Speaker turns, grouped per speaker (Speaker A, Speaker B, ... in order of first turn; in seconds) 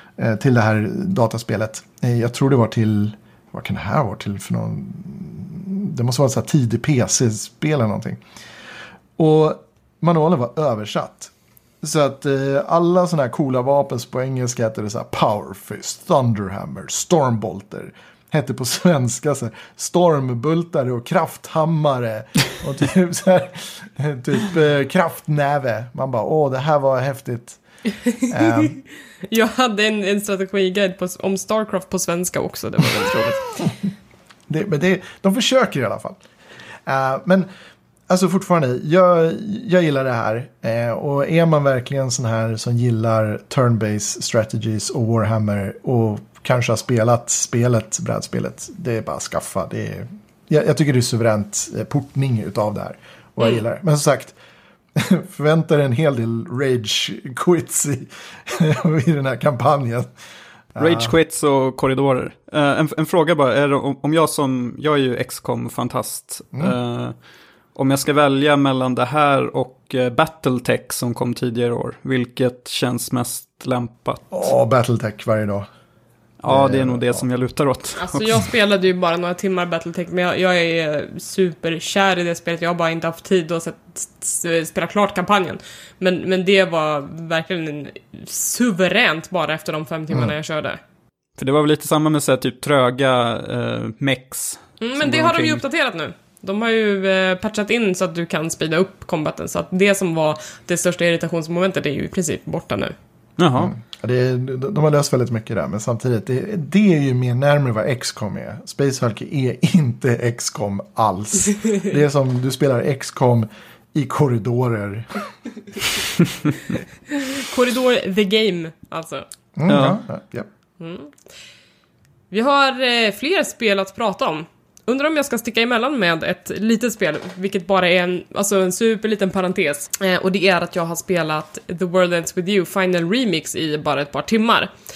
Speaker A: 0.2-8.2, 9.2-27.6, 28.3-28.8, 34.5-36.2, 36.9-37.5, 38.1-54.4, 55.0-60.1, 60.8-61.1, 74.3-75.7, 76.5-77.3, 103.5-115.2, 119.6-120.5
Speaker B: 28.1-33.5, 78.0-90.8, 94.8-103.0, 117.1-119.3, 120.8-121.1, 122.3-134.7
Speaker C: 60.8-67.2, 67.8-74.4, 76.4-78.3, 91.4-95.6, 103.4-103.7, 119.7-120.0